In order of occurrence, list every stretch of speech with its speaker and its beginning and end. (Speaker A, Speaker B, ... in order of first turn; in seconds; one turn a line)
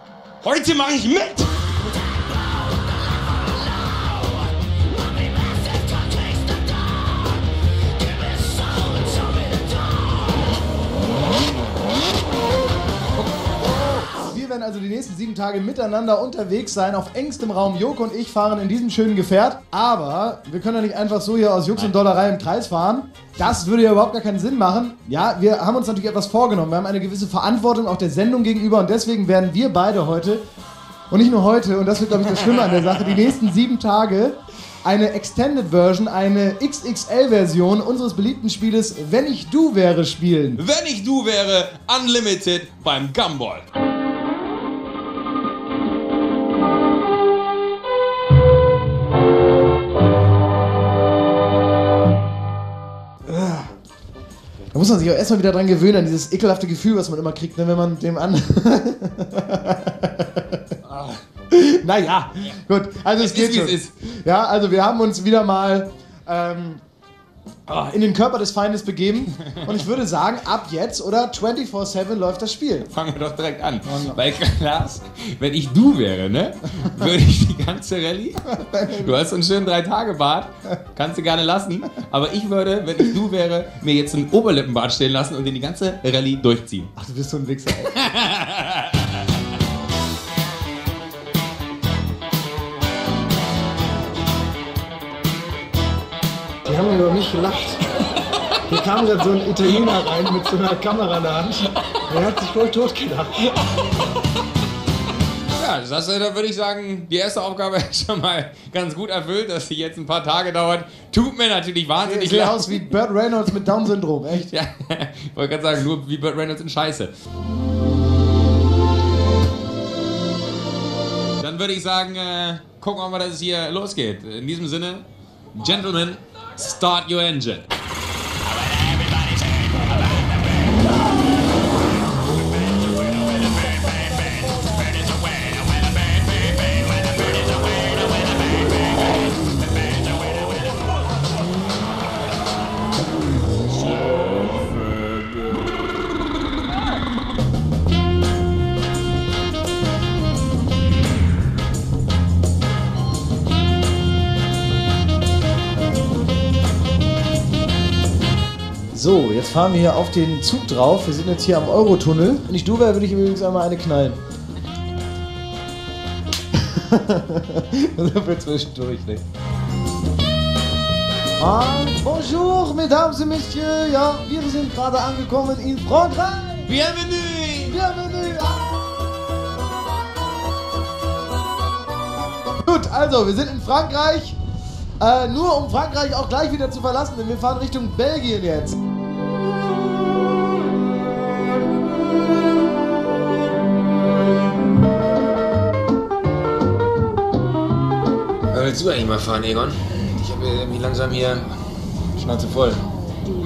Speaker A: 0.4-1.7
Speaker B: 13.6-30.4
Speaker B: 31.1-40.6
Speaker A: 32.4-33.2
Speaker A: 40.6-43.7
Speaker B: 53.3-53.7
Speaker B: 54.7-60.6
Speaker A: 60.9-61.2
Speaker B: 61.5-66.8
Speaker A: 63.2-63.9
Speaker B: 67.7-72.9
Speaker A: 72.9-86.9
Speaker B: 73.8-74.2
Speaker B: 78.5-79.2
Speaker B: 87.0-88.1
Speaker A: 88.0-89.1
Speaker B: 96.6-97.8
Speaker B: 98.7-103.6
Speaker A: 105.5-112.9
Speaker B: 112.0-114.5
Speaker A: 114.4-117.1
Speaker A: 121.4-127.7
Speaker A: 128.8-129.6
Speaker A: 132.9-138.2
Speaker B: 158.9-164.2
Speaker B: 166.5-169.2
Speaker B: 171.4-176.7
Speaker A: 176.7-177.8
Speaker B: 177.6-178.8
Speaker B: 182.6-184.4
Speaker B: 185.0-188.8
Speaker A: 198.5-201.5
Speaker A: 202.2-202.8